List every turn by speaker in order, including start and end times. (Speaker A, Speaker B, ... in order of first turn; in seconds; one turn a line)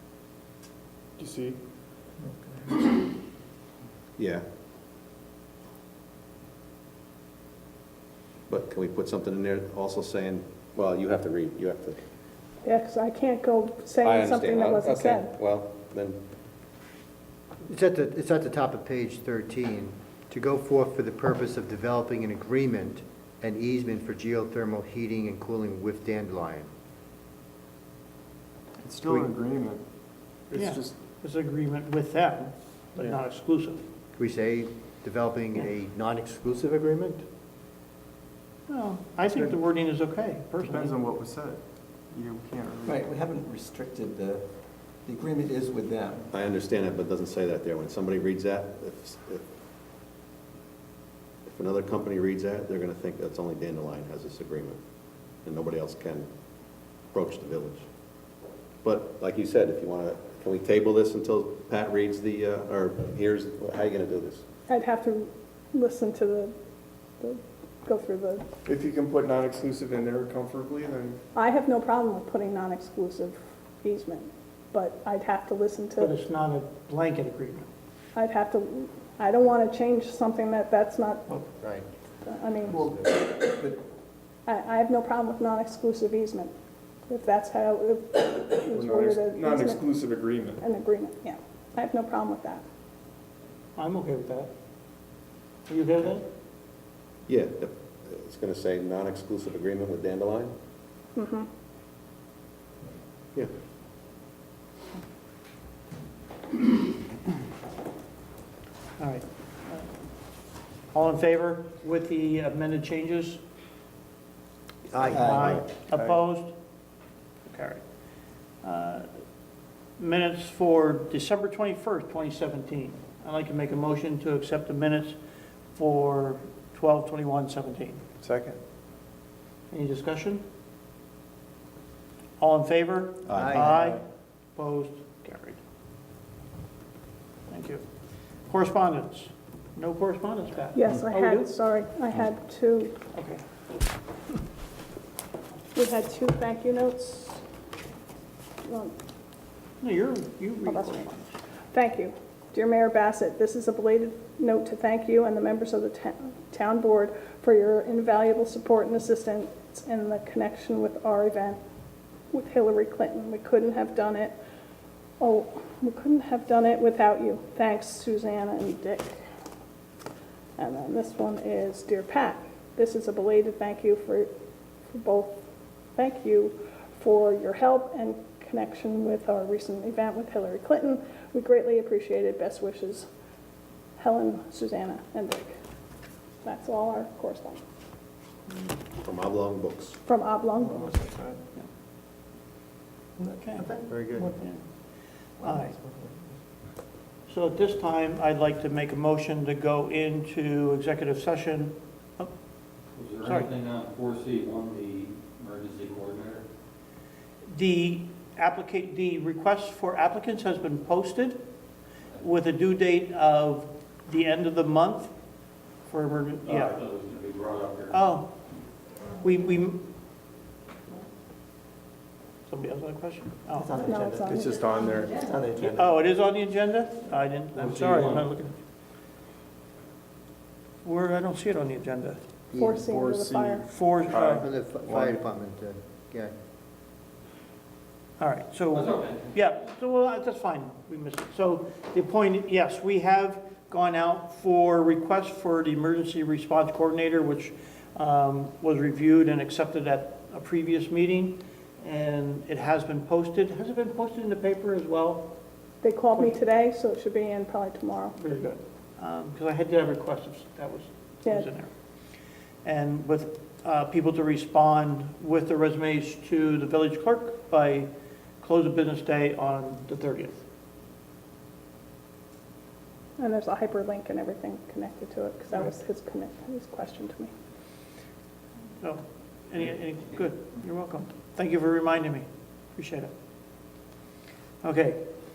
Speaker A: 1.2-1.6
Speaker B: 4.2-4.4
Speaker B: 8.5-12.0
Speaker C: 12.6-15.3
Speaker B: 14.0-16.2
Speaker D: 17.7-26.7
Speaker A: 28.8-29.8
Speaker D: 29.0-29.3
Speaker A: 30.5-30.9
Speaker E: 30.5-33.8
Speaker D: 34.1-37.2
Speaker E: 38.7-41.0
Speaker A: 40.5-43.1
Speaker F: 42.8-46.3
Speaker B: 46.3-49.4
Speaker B: 51.5-54.8
Speaker B: 55.4-56.3
Speaker B: 57.1-57.8
Speaker B: 58.8-64.4
Speaker C: 64.7-66.5
Speaker C: 67.2-68.5
Speaker A: 68.6-71.2
Speaker C: 71.3-76.1
Speaker E: 76.0-77.7
Speaker C: 78.2-81.4
Speaker D: 81.6-81.9
Speaker C: 82.2-82.8
Speaker F: 82.7-83.8
Speaker D: 82.8-83.0
Speaker C: 84.5-86.5
Speaker C: 87.1-89.8
Speaker A: 88.7-90.6
Speaker C: 90.6-92.6
Speaker E: 93.8-94.5
Speaker E: 95.7-96.2
Speaker B: 97.3-100.5
Speaker C: 101.1-101.5
Speaker E: 109.0-109.9
Speaker E: 110.9-113.4
Speaker D: 114.9-115.5
Speaker E: 115.0-116.5
Speaker F: 115.1-115.5
Speaker E: 117.5-117.8
Speaker E: 118.6-119.1
Speaker E: 120.0-125.2
Speaker E: 125.7-128.0
Speaker A: 128.2-128.6
Speaker E: 129.7-130.4
Speaker E: 132.4-134.0
Speaker B: 133.3-133.5
Speaker D: 133.3-133.9
Speaker A: 133.6-134.0
Speaker E: 134.5-135.6
Speaker E: 137.5-137.8
Speaker E: 138.5-141.5
Speaker C: 140.7-142.9
Speaker E: 143.1-143.4
Speaker C: 145.7-147.4
Speaker C: 148.6-148.9
Speaker E: 149.8-151.3
Speaker C: 150.7-151.0
Speaker C: 151.7-161.6
Speaker C: 162.3-164.3
Speaker C: 165.2-169.2
Speaker C: 170.6-174.3
Speaker C: 174.9-175.3
Speaker C: 175.9-183.1
Speaker C: 184.0-185.5
Speaker C: 186.4-187.6
Speaker B: 189.0-190.0
Speaker C: 190.1-190.9
Speaker F: 190.6-191.4
Speaker E: 193.2-194.6
Speaker D: 193.8-194.3
Speaker E: 195.4-195.8
Speaker F: 195.4-196.2
Speaker E: 197.3-202.3
Speaker G: 202.9-206.4
Speaker E: 203.2-203.5
Speaker E: 207.5-211.4
Speaker E: 212.2-215.1
Speaker E: 215.9-216.8
Speaker G: 216.4-218.0
Speaker E: 217.9-218.3
Speaker E: 219.2-219.8
Speaker E: 222.5-224.1
Speaker F: 223.6-224.4
Speaker C: 223.8-224.5
Speaker A: 224.2-225.8
Speaker F: 225.2-225.8
Speaker E: 225.6-228.5
Speaker G: 227.5-228.3
Speaker E: 230.8-232.2
Speaker A: 232.5-235.1
Speaker C: 232.5-233.7
Speaker E: 233.7-234.4
Speaker D: 234.1-236.3
Speaker E: 238.2-255.3
Speaker G: 238.7-239.3
Speaker C: 255.8-258.1
Speaker E: 256.1-256.4
Speaker E: 258.1-261.7
Speaker C: 261.2-261.5
Speaker E: 262.6-267.9
Speaker E: 268.4-270.4
Speaker C: 273.2-277.3
Speaker E: 278.8-283.1
Speaker E: 284.6-285.0